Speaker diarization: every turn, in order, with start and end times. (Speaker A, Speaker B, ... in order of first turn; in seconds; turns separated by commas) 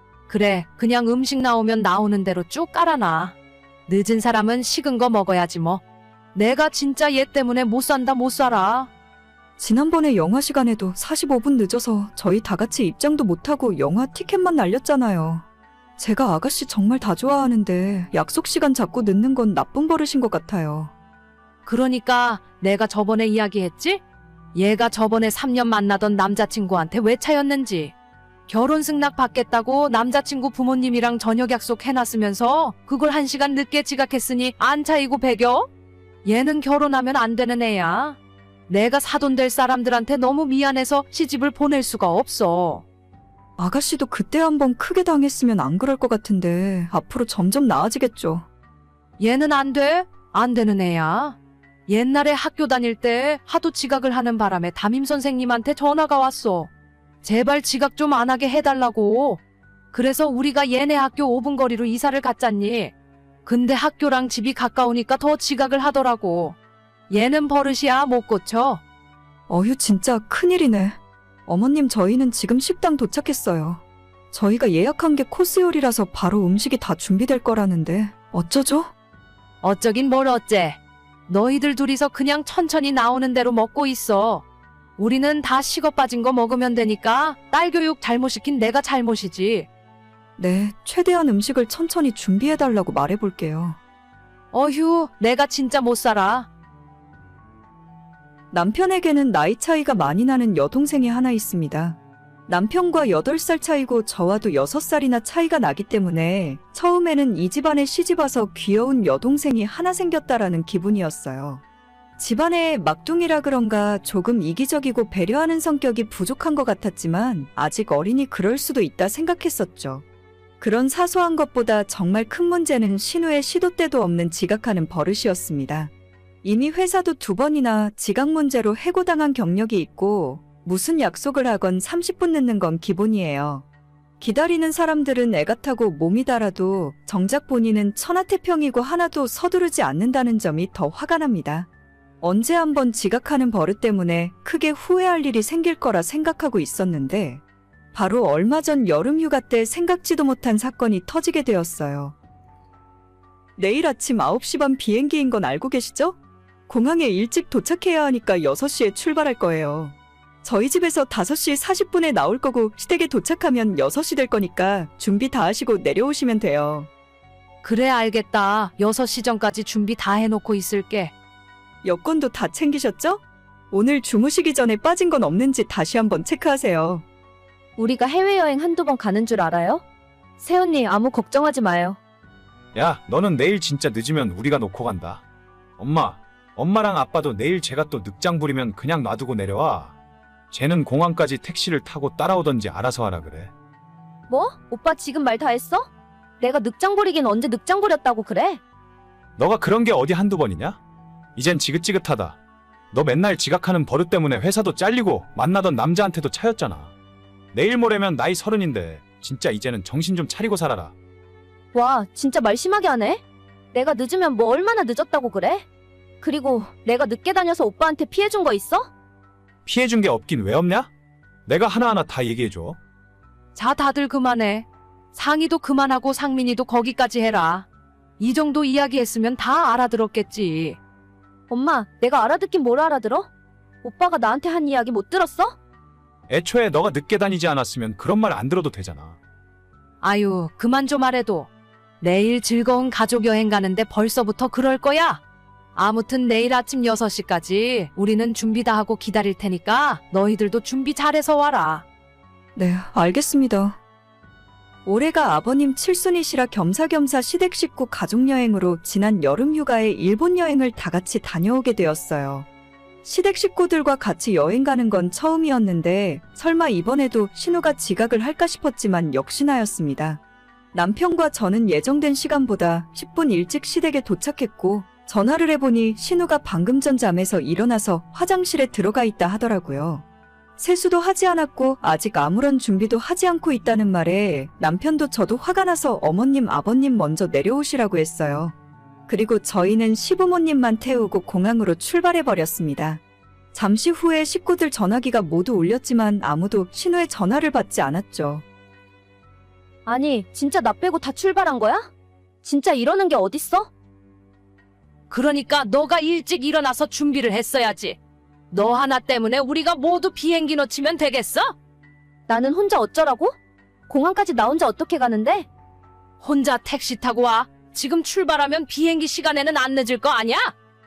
Speaker A: 0.3-3.3, Speaker A: 3.9-5.8, Speaker A: 6.3-8.9, Speaker B: 9.6-15.4, Speaker B: 16.0-20.9, Speaker A: 21.6-24.0, Speaker A: 24.5-27.9, Speaker A: 28.5-35.7, Speaker A: 36.2-38.2, Speaker A: 38.7-42.8, Speaker B: 43.6-48.4, Speaker A: 49.2-51.4, Speaker A: 51.9-56.7, Speaker A: 57.2-59.4, Speaker A: 59.9-62.9, Speaker A: 63.4-66.5, Speaker A: 67.1-68.8, Speaker B: 69.5-78.9, Speaker A: 79.6-84.4, Speaker A: 85.0-89.7, Speaker B: 90.4-93.8, Speaker A: 94.5-96.5, Speaker B: 98.5-111.6, Speaker B: 112.2-120.0, Speaker B: 120.6-125.9, Speaker B: 126.4-133.6, Speaker B: 134.2-141.7, Speaker B: 142.2-147.4, Speaker B: 147.9-152.1, Speaker B: 153.6-156.2, Speaker B: 156.7-166.9, Speaker A: 167.6-171.1, Speaker B: 171.8-177.0, Speaker C: 177.8-179.8, Speaker C: 180.4-182.0, Speaker D: 182.7-185.2, Speaker D: 185.8-189.9, Speaker D: 190.5-193.5, Speaker C: 194.3-195.9, Speaker C: 196.4-198.6, Speaker D: 199.4-200.8, Speaker D: 201.3-202.4, Speaker D: 202.9-206.9, Speaker D: 207.5-210.9, Speaker C: 211.7-215.6, Speaker C: 216.2-218.9, Speaker D: 219.6-220.9, Speaker D: 221.4-222.8, Speaker A: 223.5-227.7, Speaker A: 228.2-230.8, Speaker C: 231.5-233.3, Speaker C: 233.8-235.6, Speaker D: 236.3-239.2, Speaker A: 240.0-241.5, Speaker A: 242.0-245.2, Speaker A: 245.7-251.8, Speaker B: 252.6-253.8, Speaker B: 254.8-262.4, Speaker B: 263.0-270.2, Speaker B: 270.7-280.0, Speaker B: 280.6-288.5, Speaker B: 289.1-293.0, Speaker B: 293.5-298.4, Speaker C: 299.9-301.9, Speaker C: 302.4-303.7, Speaker A: 305.1-308.0, Speaker A: 308.5-311.5, Speaker C: 312.3-313.3, Speaker C: 313.9-315.5, Speaker A: 316.2-320.5